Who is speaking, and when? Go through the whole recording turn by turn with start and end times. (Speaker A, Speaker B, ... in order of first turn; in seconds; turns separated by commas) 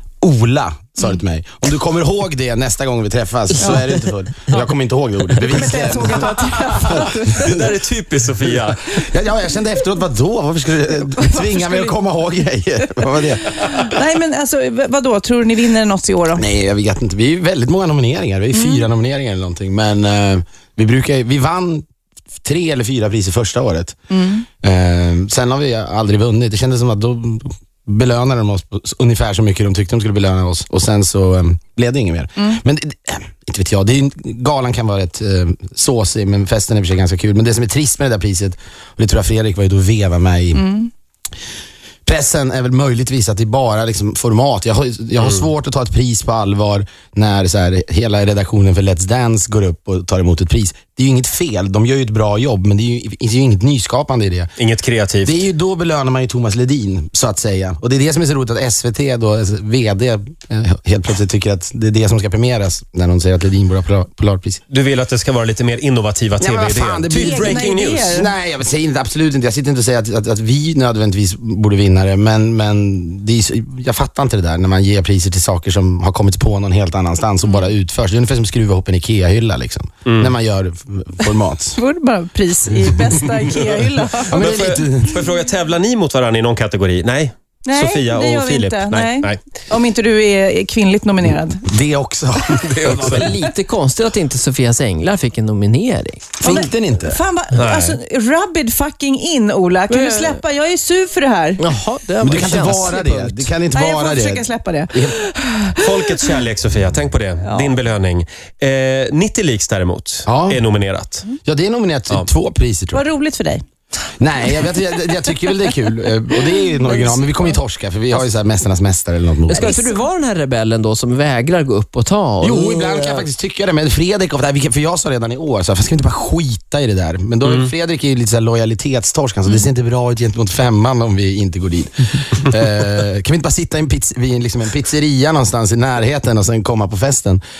Speaker A: 0.2-7.7, Speaker B: 3.6-4.0, Speaker B: 5.4-7.6, Speaker C: 7.0-9.0, Speaker A: 8.4-13.6, Speaker B: 11.1-11.9, Speaker B: 13.6-16.4, Speaker A: 16.4-21.9, Speaker B: 18.5-18.8, Speaker A: 22.4-24.0, Speaker B: 24.1-24.5, Speaker A: 24.6-40.7, Speaker B: 40.6-40.9, Speaker A: 42.1-54.5, Speaker C: 54.6-55.4, Speaker A: 55.2-64.6, Speaker C: 64.7-68.2, Speaker A: 66.4-81.8, Speaker B: 67.2-68.3, Speaker C: 80.1-80.3, Speaker B: 81.8-84.8, Speaker A: 83.2-85.2, Speaker C: 84.3-89.4, Speaker B: 87.7-91.7, Speaker A: 91.7-93.3, Speaker C: 92.5-93.3, Speaker D: 92.8-96.3, Speaker A: 96.4-97.2, Speaker B: 96.4-101.6, Speaker C: 97.5-98.0, Speaker D: 99.9-100.4, Speaker D: 101.6-103.5, Speaker A: 102.2-105.2, Speaker B: 103.7-106.2, Speaker C: 105.8-111.3, Speaker B: 107.4-107.8, Speaker A: 110.2-110.6, Speaker A: 111.4-113.0, Speaker B: 112.9-113.6, Speaker A: 114.2-119.8, Speaker B: 116.9-117.4, Speaker D: 119.5-123.2, Speaker B: 119.5-119.9, Speaker A: 122.4-137.4, Speaker C: 127.4-127.7